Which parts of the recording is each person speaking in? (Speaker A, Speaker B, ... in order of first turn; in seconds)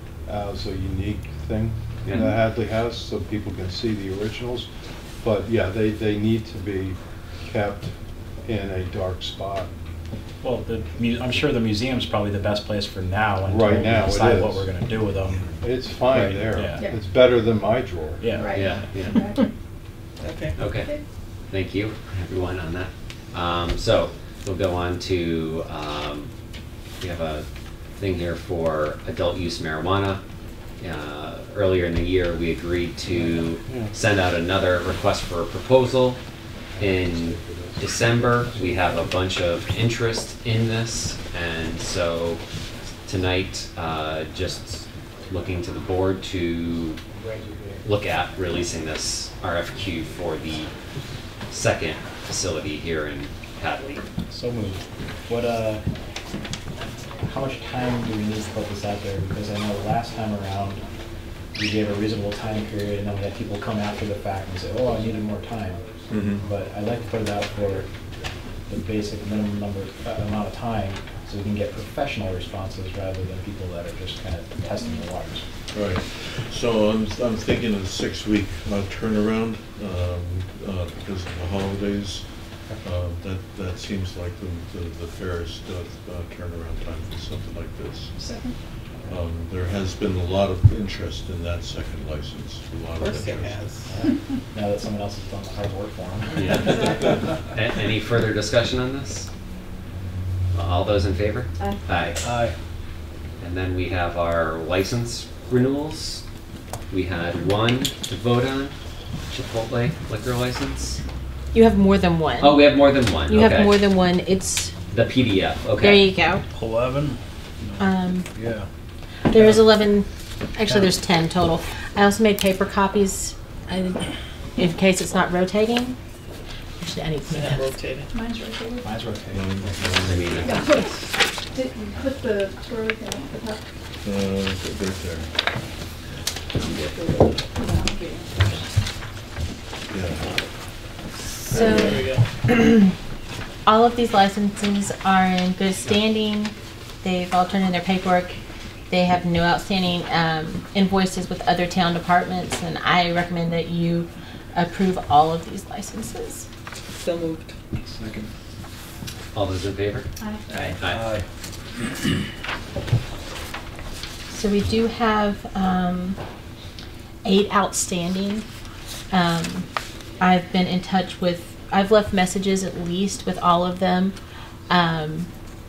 Speaker A: 0.3-7.9, 8.4-9.7, 13.4-14.7, 15.6-18.4
Speaker B: 10.4-15.5, 16.1-16.9, 18.2-18.8, 36.8-37.8, 38.5-38.8, 47.4-47.8, 54.3-55.8, 57.2-60.8, 61.5-67.9, 68.7-75.5, 93.9-97.1, 128.8-130.3, 157.8-158.3
Speaker C: 18.4-19.4, 20.8-21.0, 88.2-88.6, 128.1-128.9, 130.4-133.7, 137.6-138.6, 160.2-160.5
Speaker D: 18.5-19.3, 20.6-26.3, 27.0-30.2, 30.8-36.2, 36.8-42.4, 43.0-47.0, 47.8-50.7, 51.5-54.0, 97.5-99.3, 100.5-102.2, 103.4-106.2, 106.9-108.8, 109.3-111.0, 112.4-113.8, 114.9-116.1, 130.0-131.1, 136.6-137.0, 159.3-161.1
Speaker E: 20.2-20.6, 93.0-93.9, 127.3-128.1, 136.9-137.2, 141.4-142.3, 156.9-157.6
Speaker F: 33.1-33.9, 102.2-102.6, 116.5-118.7, 119.3-119.8, 120.7-120.9, 160.9-161.3
Speaker G: 66.1-66.5, 75.7-82.3, 82.8-88.1, 89.1-93.7, 129.3-130.3, 134.0-135.3, 139.9-140.4
Speaker H: 111.5-112.6, 113.3-114.8, 115.8-116.4, 117.8-118.3, 119.3-126.0, 126.8-127.8, 141.5-142.9, 143.6-148.4, 148.9-156.5, 164.3-166.2, 167.2-168.5, 169.1-169.7, 170.2-174.2, 174.7-175.3